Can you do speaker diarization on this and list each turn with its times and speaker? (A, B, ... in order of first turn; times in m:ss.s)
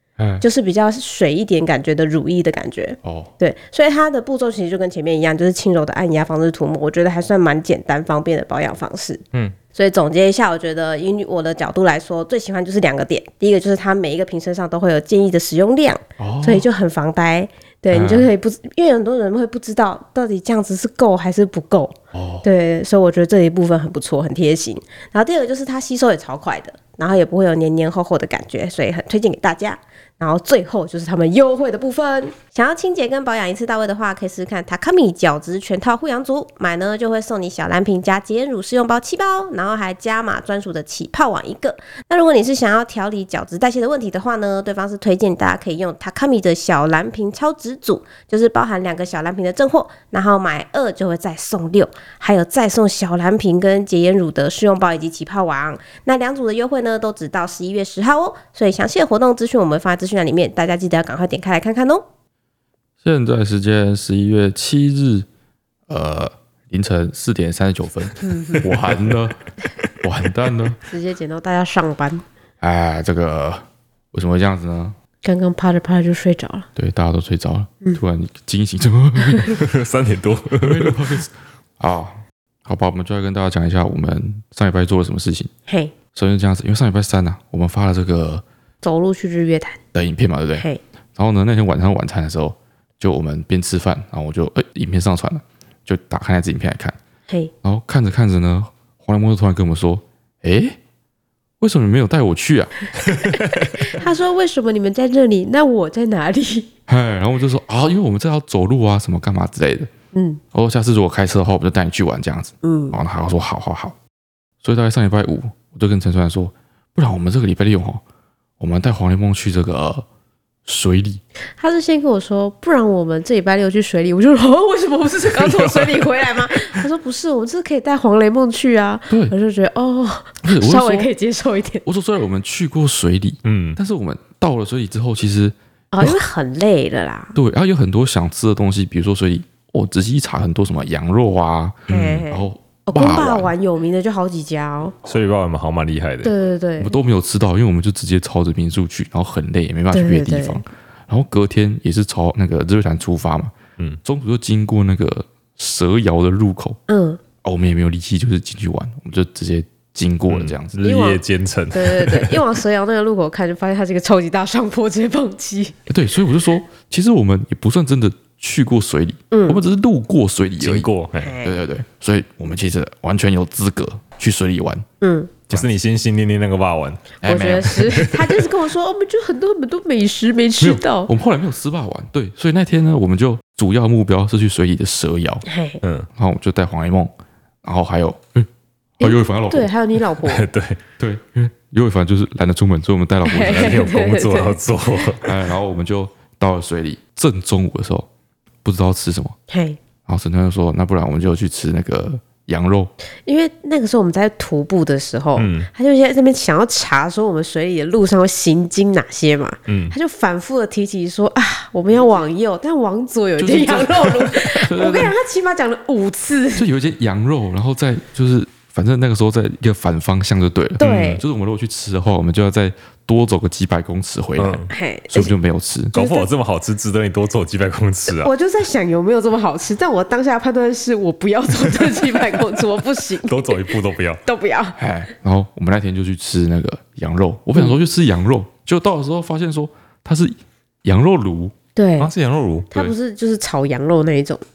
0:00.2-0:00.4 A
0:00.4-1:02.0 B
0:03.0-0:03.3 A
0:16.2-0:16.6 A
0:17.9-0:18.3 A
0:22.1-0:22.4 A
1:03.0-1:05.2 A
1:05.9-1:09.4 A
1:08.2-1:08.6 B
1:10.0-1:10.8 A
1:10.9-1:12.2 B
1:12.6-1:15.0 A
1:15.2-1:16.7 B
1:16.8-1:19.6 A
1:19.5-1:21.1 C
1:20.6-1:25.5 A
1:25.7-1:25.9 B
1:26.1-1:28.4 A
1:28.8-1:29.8 B
1:29.9-1:37.0 A
1:37.6-1:40.8 A
1:41.6-1:42.7 A
1:43.2-1:43.6 C
1:43.3-1:46.7 B
1:46.9-1:49.9 A
1:50.1-1:50.4 B
1:50.5-1:54.0 A
1:52.6-1:53.0 B
1:54.6-1:58.0 A
1:58.6-2:00.0 A
2:00.6-2:01.2 A
2:01.6-2:11.8 B
2:05.2-2:06.8 C
2:10.4-2:11.1 A
2:11.8-2:16.2 A
2:13.4-2:13.8 C
2:15.9-2:17.4 B
2:17.3-2:23.5 A
2:21.9-2:22.2 C
2:21.9-2:24.9 B
2:25.0-2:26.3 C
2:26.2-2:26.9 B
2:26.8-2:33.5 A
2:29.9-2:30.6 B
2:34.0-2:36.8 A
2:36.9-2:37.2 B
2:37.4-2:40.8 A
2:40.3-2:42.4 C
2:40.8-2:45.8 B
2:45.9-2:50.9 A
2:49.3-2:49.6 B
2:50.6-2:51.3 C
2:51.2-2:51.5 B
2:51.4-2:54.8 A
2:55.0-2:55.3 B
2:55.5-2:57.1 C
2:57.2-2:58.0 A
2:57.2-3:01.1 B
2:57.8-2:58.4 C
3:00.6-3:05.4 A
3:05.4-3:05.8 B
3:05.8-3:06.1 C
3:06.2-3:07.1 A
3:07.6-3:08.5 A
3:09.0-3:09.7 A
3:09.0-3:10.5 B
3:10.2-3:10.8 C
3:11.0-3:13.8 A
3:13.2-3:14.6 B
3:13.4-3:15.4 C
3:15.2-3:18.1 A
3:18.6-3:19.4 A
3:19.5-3:19.8 B
3:20.0-3:22.9 A
3:23.2-3:36.7 B
3:25.4-3:25.7 C
3:29.7-3:29.9 C
3:33.4-3:35.1 A
3:36.5-3:45.9 A
3:40.8-3:41.2 B
3:40.8-3:41.2 C
3:44.4-3:44.7 C
3:44.7-3:45.3 B
3:45.9-3:46.3 B
3:45.9-3:48.3 C
3:48.1-3:53.7 B
3:53.2-3:54.2 C
3:54.2-3:54.8 B
3:54.8-4:01.5 A
4:01.8-4:02.1 B
4:02.0-4:02.7 C
4:02.7-4:04.4 B